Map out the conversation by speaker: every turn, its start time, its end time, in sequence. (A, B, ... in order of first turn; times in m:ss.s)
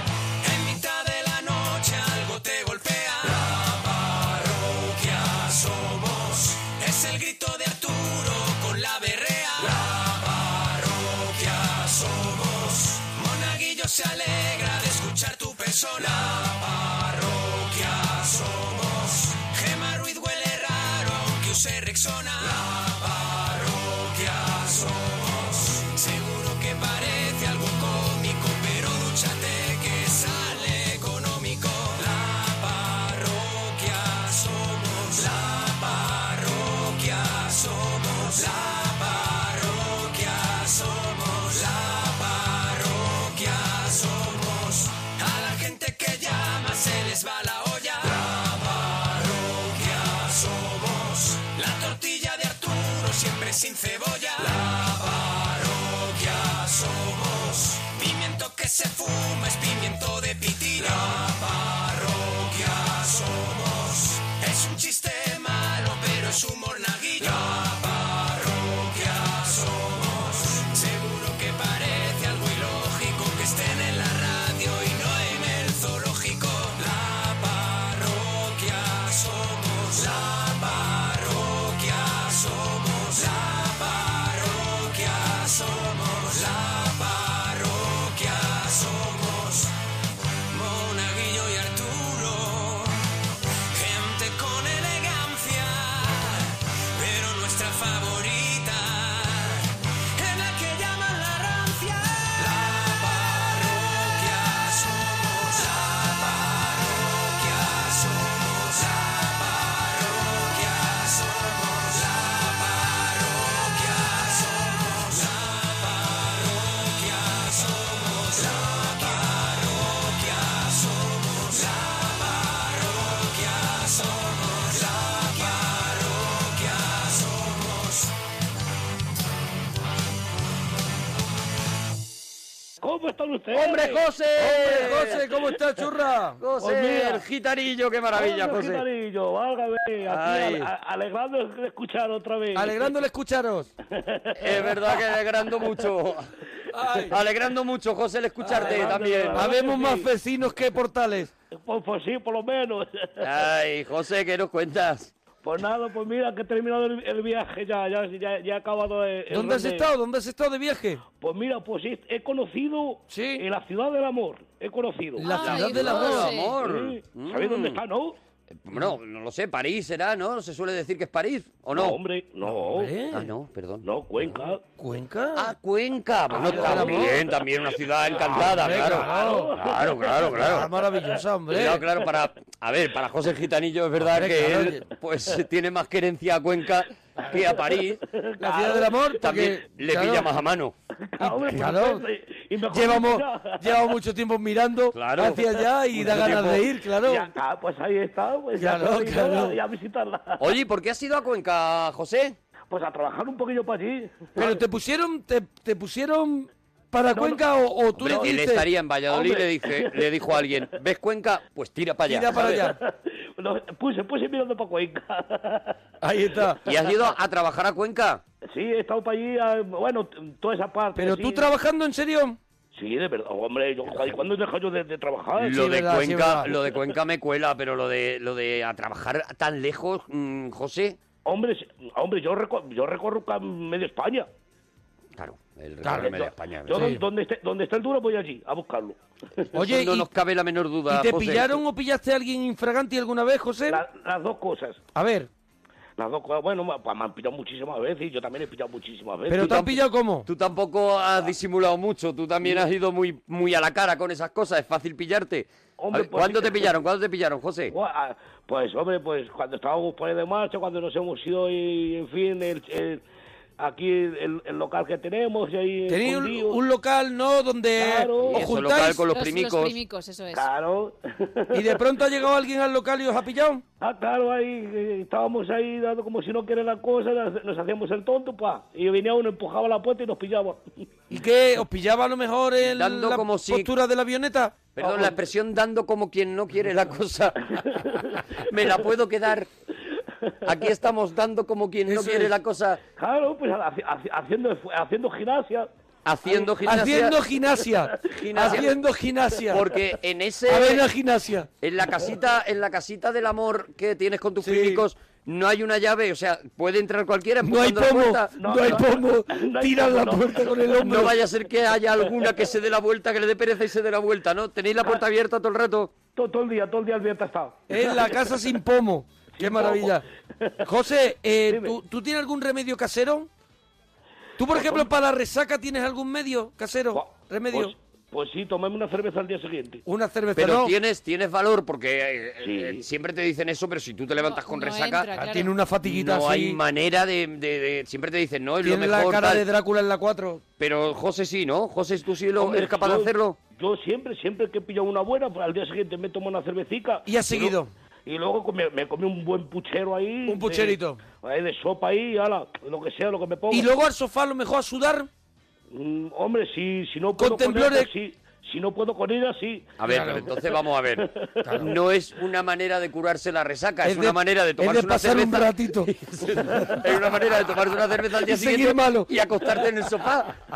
0:00.4-1:29.7 A
1:30.5-1:33.1 A
1:33.7-2:08.1 A
2:12.8-2:15.1 B
2:13.5-2:15.2 C
2:13.7-2:16.4 D
2:16.4-2:18.8 C
2:16.6-2:17.2 B
2:18.1-2:22.9 B
2:20.0-2:20.7 C
2:22.5-2:23.7 D
2:23.9-2:24.9 B
2:24.3-2:26.3 C
2:26.7-2:27.1 D
2:27.0-2:29.5 C
2:28.4-2:31.3 D
2:28.5-2:30.1 B
2:31.5-2:33.2 B
2:33.2-2:35.1 C
2:35.4-2:39.9 B
2:39.3-2:41.0 D
2:41.2-2:48.2 B
2:43.1-2:43.4 D
2:45.2-2:46.3 D
2:45.2-2:46.5 E
2:45.3-2:47.8 C
2:48.5-2:52.0 C
2:51.7-2:53.0 B
2:52.5-2:53.3 D
2:53.1-2:53.9 C
2:53.8-2:54.7 B
2:54.8-2:55.5 D
2:55.3-3:00.7 C
2:56.3-2:57.2 D
2:56.4-2:57.1 B
2:58.1-3:01.1 B
2:58.4-2:59.5 D
3:00.3-3:01.8 D
3:01.5-3:08.0 C
3:04.0-3:04.8 D
3:07.3-3:09.4 B
3:08.4-3:10.3 D
3:09.2-3:10.7 C
3:11.1-3:14.0 B
3:11.2-3:12.0 D
3:12.7-3:17.3 D
3:14.9-3:16.7 C
3:16.0-3:20.5 B
3:18.6-3:19.6 D
3:20.4-3:22.4 C
3:22.7-3:24.6 B
3:24.4-3:28.7 D
3:27.1-3:27.4 B
3:27.9-3:32.5 C
3:29.1-3:30.1 B
3:32.1-3:32.8 D
3:32.3-3:35.8 B
3:36.0-3:36.6 D
3:36.6-3:38.2 C
3:38.5-3:41.5 B
3:41.0-3:42.4 D
3:42.7-3:45.6 B
3:45.4-3:51.0 C
3:45.5-3:46.6 D
3:51.2-3:54.3 B
3:55.2-3:57.0 C
3:55.8-3:56.1 D
3:55.9-3:59.6 B
3:56.7-3:57.0 D
3:59.5-4:00.1 D
3:59.6-4:01.6 C
4:00.9-4:03.8 D
4:03.7-4:04.9 B
4:04.9-4:05.3 D
4:06.0-4:09.8 B
4:09.3-4:10.3 D
4:09.4-4:09.7 C
4:10.2-4:17.7 C
4:15.8-4:16.7 B
4:17.7-4:23.0 B
4:23.6-4:26.6 B
4:25.9-4:29.0 D
4:27.8-4:28.4 B
4:28.3-4:29.8 C
4:29.1-4:30.5 E
4:30.3-4:31.8 B
4:31.5-4:33.6 D
4:33.8-4:40.6 B
4:41.1-4:44.7 D
4:42.7-4:43.7 C
4:44.8-4:47.8 C
4:44.8-4:45.2 B
4:47.7-4:48.2 B
4:48.4-4:49.5 C
4:50.4-4:52.8 C
4:51.8-4:52.3 D
4:53.0-4:55.7 B
4:56.0-4:57.2 C
4:56.2-4:57.0 B
4:56.6-4:59.6 D
4:57.6-4:58.6 B
4:58.1-4:58.8 C
4:59.5-5:00.8 C
5:00.4-5:01.5 D
5:01.6-5:08.3 C
5:04.4-5:04.8 D
5:07.4-5:11.2 D
5:08.4-5:11.0 B
5:10.8-5:15.9 C
5:16.1-5:18.5 B
5:17.7-5:20.0 D
5:19.3-5:20.7 B
5:20.6-5:23.3 D
5:21.5-5:21.8 B
5:24.4-5:27.7 D
5:24.5-5:24.9 B
5:26.9-5:29.8 B
5:29.9-5:30.7 D
5:30.3-5:35.1 C
5:32.4-5:32.8 B
5:34.2-5:35.5 E
5:35.1-5:36.6 D
5:35.8-5:39.4 C
5:38.6-5:40.4 D
5:40.6-5:43.4 C
5:42.4-5:53.7 B
5:47.0-5:47.7 D
5:50.3-5:51.0 D
5:53.5-5:55.1 D
5:55.7-5:59.8 B
5:57.2-5:57.9 D
5:59.8-6:01.0 C
5:59.8-6:00.3 D
6:01.0-6:01.6 B
6:01.6-6:10.4 C
6:03.8-6:05.9 D
6:08.2-6:09.1 D